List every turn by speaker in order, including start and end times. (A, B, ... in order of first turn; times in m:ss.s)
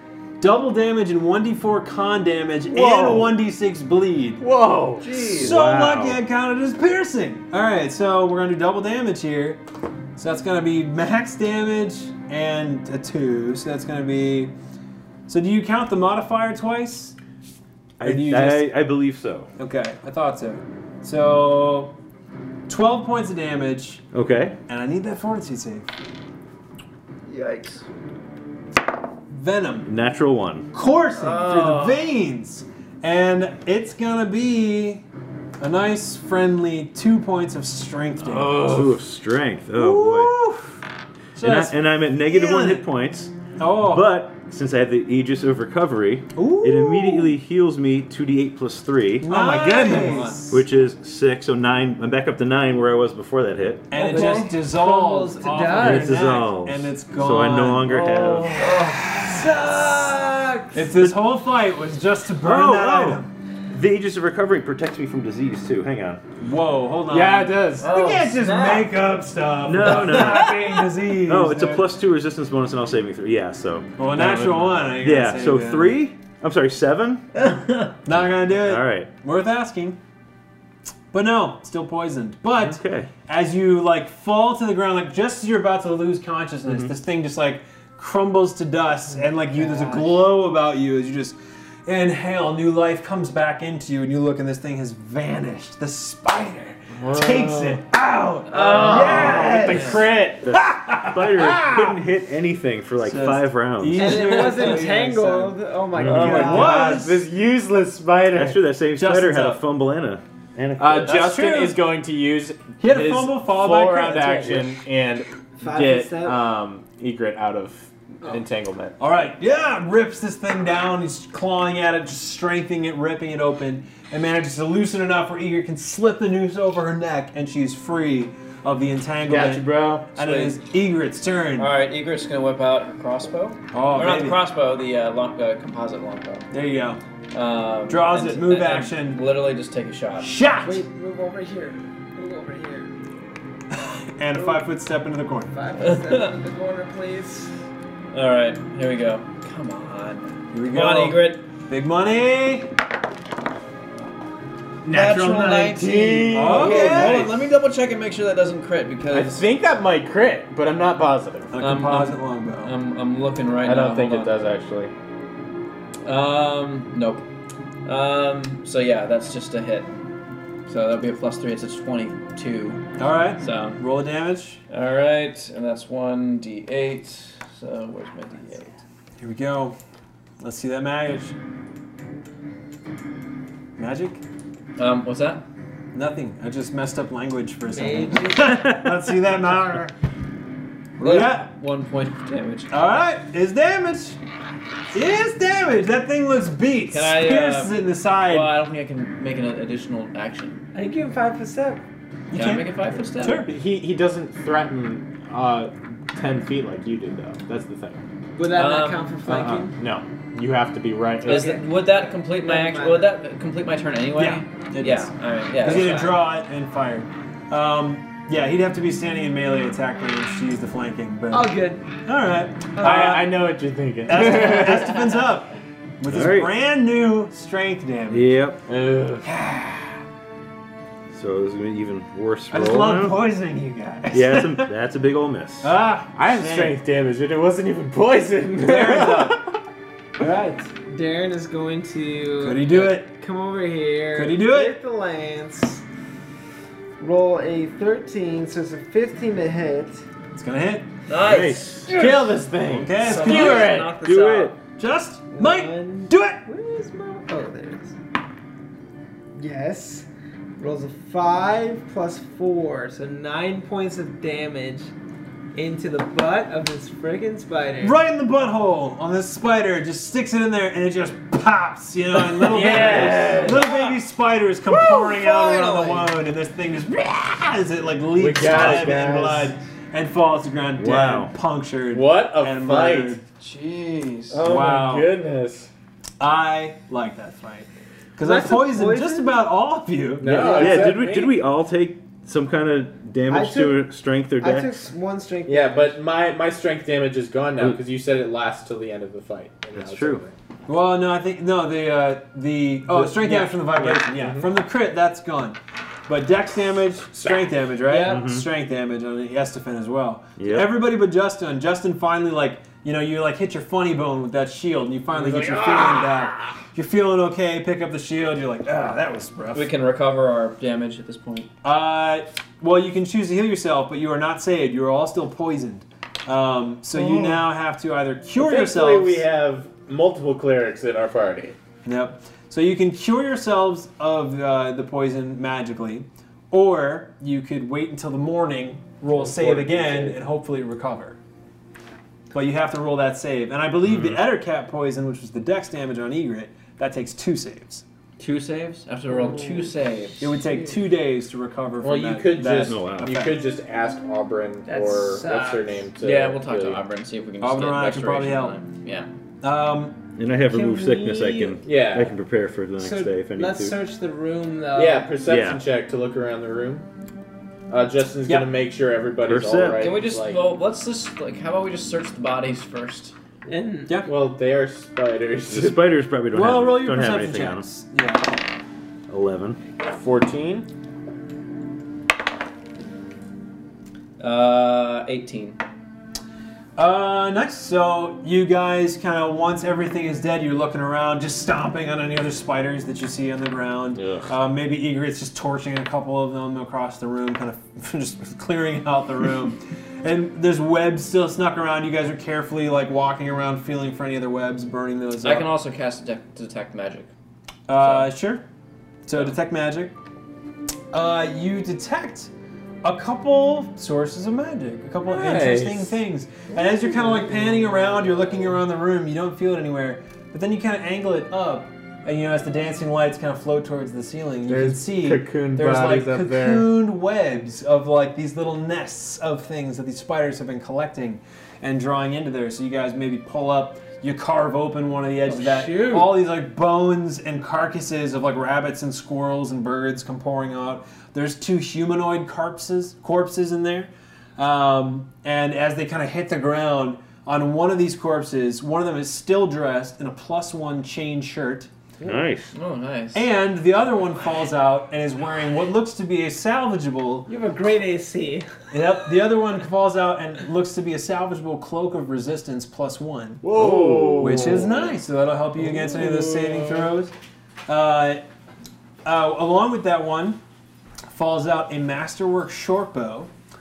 0:00.4-0:04.4 A
0:02.7-0:03.4 B
0:04.4-0:05.2 B
0:05.0-0:05.5 C
0:05.2-0:06.2 D
0:05.4-0:09.6 A
0:10.2-0:14.5 A
0:15.3-0:17.2 A
0:18.0-0:19.5 D
0:18.0-0:18.8 A
0:19.6-0:22.0 A
0:22.7-0:24.0 A
0:24.1-0:24.6 D
0:24.7-0:25.9 A
0:27.4-0:27.8 C
0:29.3-0:29.9 A
0:29.9-0:30.7 D
0:30.7-0:35.0 A
0:31.3-0:31.8 C
0:31.5-0:31.8 B
0:35.6-0:39.0 A
0:38.6-0:40.4 D
0:39.7-0:40.8 A
0:41.4-0:42.9 A
0:41.4-0:49.3 D
0:43.6-0:44.1 A
0:46.3-0:47.4 A
0:49.2-0:50.6 A
0:49.2-0:50.3 B
0:49.9-0:50.4 C
0:50.5-0:54.4 D
0:53.9-1:00.1 A
0:53.9-0:56.4 E
0:55.8-0:58.6 D
0:58.2-1:00.8 E
1:00.7-1:03.3 A
1:02.4-1:06.2 D
1:06.4-1:11.9 A
1:07.1-1:08.0 B
1:07.8-1:08.9 E
1:09.6-1:10.6 D
1:11.3-1:17.3 D
1:14.0-1:16.0 A
1:18.0-1:20.0 A
1:18.1-1:19.1 D
1:21.1-1:41.7 A
1:22.6-1:23.1 D
1:26.7-1:26.9 D
1:37.0-1:37.8 B
1:38.5-1:40.7 B
1:38.5-1:40.0 C
1:40.5-1:44.2 D
1:41.4-1:41.9 B
1:43.0-1:47.3 A
1:44.0-1:46.9 E
1:44.1-1:44.9 C
1:46.0-1:46.4 D
1:46.0-1:48.6 B
1:48.3-1:51.2 D
1:48.9-1:49.7 A
1:50.8-1:59.0 B
1:51.0-1:51.8 A
1:52.8-1:54.8 A
1:55.6-1:56.4 E
1:59.0-2:11.7 A
2:09.3-2:10.1 B
2:10.2-2:10.6 C
2:11.6-2:16.5 C
2:13.7-2:14.4 A
2:16.5-2:17.0 A
2:17.3-2:20.3 C
2:17.9-2:19.2 A
2:20.2-2:20.8 A
2:20.6-2:22.9 E
2:23.7-2:25.5 A
2:25.5-2:27.5 E
2:25.8-2:26.3 C
2:28.1-2:31.4 C
2:30.5-2:32.7 A
2:34.8-2:37.4 B
2:34.9-2:39.4 C
2:36.3-2:37.3 A
2:39.1-2:41.5 B
2:41.5-2:42.7 A
2:41.6-2:44.3 C
2:43.6-2:44.9 B
2:46.0-2:47.3 C
2:47.8-2:50.0 C
2:50.7-2:53.8 C
2:53.0-2:54.6 A
2:54.7-2:58.8 C
2:59.2-2:59.8 A
3:00.4-3:01.4 A
3:03.8-3:04.2 A
3:04.8-3:05.4 C
3:05.9-3:09.9 A
3:07.7-3:08.7 E
3:08.6-3:08.9 D
3:11.0-3:11.5 A
3:11.0-3:12.7 C
3:12.7-3:14.2 A
3:14.9-3:18.5 A
3:16.9-3:20.6 C
3:20.7-3:21.8 E
3:22.3-3:23.5 A
3:22.3-3:23.5 C
3:23.3-3:28.0 B
3:28.4-3:29.7 E
3:28.5-3:29.1 C
3:29.3-3:31.6 B
3:31.2-3:36.2 C
3:31.3-3:33.2 E
3:34.2-3:43.2 A
3:41.3-3:41.8 E
3:42.8-3:45.1 B
3:42.8-3:43.2 E
3:44.1-3:48.4 A
3:46.1-3:46.5 D
3:48.1-3:48.6 D
3:48.7-3:49.3 B
3:49.2-3:49.9 A
3:51.1-3:53.2 D
3:52.5-3:54.7 A
3:54.1-3:55.8 D
3:55.6-3:56.8 A
3:56.2-3:59.6 B
3:58.6-3:59.4 A
4:00.2-4:00.6 A
4:00.2-4:05.8 E
4:02.4-4:03.1 A
4:04.1-4:04.8 A
4:07.0-4:10.0 E
4:10.4-4:10.9 A
4:11.1-4:12.0 C
4:11.2-4:12.0 D
4:11.9-4:14.0 B
4:12.6-4:13.7 A
4:13.0-4:14.5 C
4:13.1-4:14.2 E
4:13.6-4:14.6 D
4:14.8-4:16.4 A
4:15.3-4:18.0 E
4:19.4-4:20.1 E
4:20.6-4:24.9 E
4:25.5-4:28.0 E
4:27.8-4:43.2 A
4:32.4-4:33.7 B
4:32.5-4:33.9 C
4:35.0-4:36.1 C
4:35.0-4:35.8 E
4:38.2-4:39.6 B
4:40.8-4:41.3 D
4:41.9-4:43.2 B
4:43.4-4:44.4 C
4:44.3-4:45.7 B
4:44.4-4:45.1 A
4:46.2-4:50.6 A
4:48.2-4:49.4 E
4:50.2-4:51.1 B
4:50.3-4:51.3 E
4:50.5-4:54.7 D
4:53.3-4:56.0 E
4:55.5-5:00.3 B
4:59.7-5:00.2 D
5:00.7-5:19.7 A
5:02.9-5:04.5 B
5:07.9-5:08.2 E
5:08.0-5:08.5 D
5:10.4-5:10.8 D
5:15.1-5:16.3 B
5:19.5-5:21.5 C
5:21.6-5:29.3 A
5:26.9-5:27.4 B
5:28.4-5:31.6 B
5:31.8-5:41.2 A
5:39.1-5:40.2 B
5:42.3-5:47.8 A
5:43.9-5:44.2 D
5:48.2-5:50.4 C
5:50.2-5:53.4 A
5:51.8-5:56.8 B
5:52.5-5:53.2 D
5:54.7-5:55.8 E
5:56.0-5:59.1 C
5:57.4-5:58.6 A
5:59.4-6:00.0 A
6:00.2-6:03.8 D
6:00.4-6:01.7 E
6:01.7-6:02.1 B
6:02.8-6:05.2 E
6:04.7-6:06.9 B
6:05.2-6:05.6 D
6:07.7-6:10.5 B
6:08.3-6:08.5 A
6:09.2-6:09.9 D
6:09.8-6:13.1 C
6:13.5-6:14.0 E
6:14.1-6:15.9 B
6:15.5-6:17.7 D
6:16.3-6:18.4 A
6:19.1-6:19.6 D
6:19.9-6:20.7 B
6:24.2-6:25.6 C
6:26.8-6:45.5 A
6:45.2-6:47.1 C
6:47.7-6:48.4 A
6:47.7-6:48.1 C
6:49.1-6:50.0 A
6:50.9-6:52.3 A
6:52.8-7:31.7 A
6:55.1-6:56.0 B
7:04.5-7:06.7 B
7:32.0-7:32.5 D
7:32.5-7:33.3 C
7:33.1-7:37.3 A
7:37.3-7:38.5 E
7:38.7-7:43.5 A
7:43.4-7:44.8 B
7:43.5-7:44.6 D
7:44.2-7:47.1 A
7:45.6-7:46.9 B
7:47.7-7:48.2 A
7:49.0-7:50.4 A
7:51.1-7:53.3 A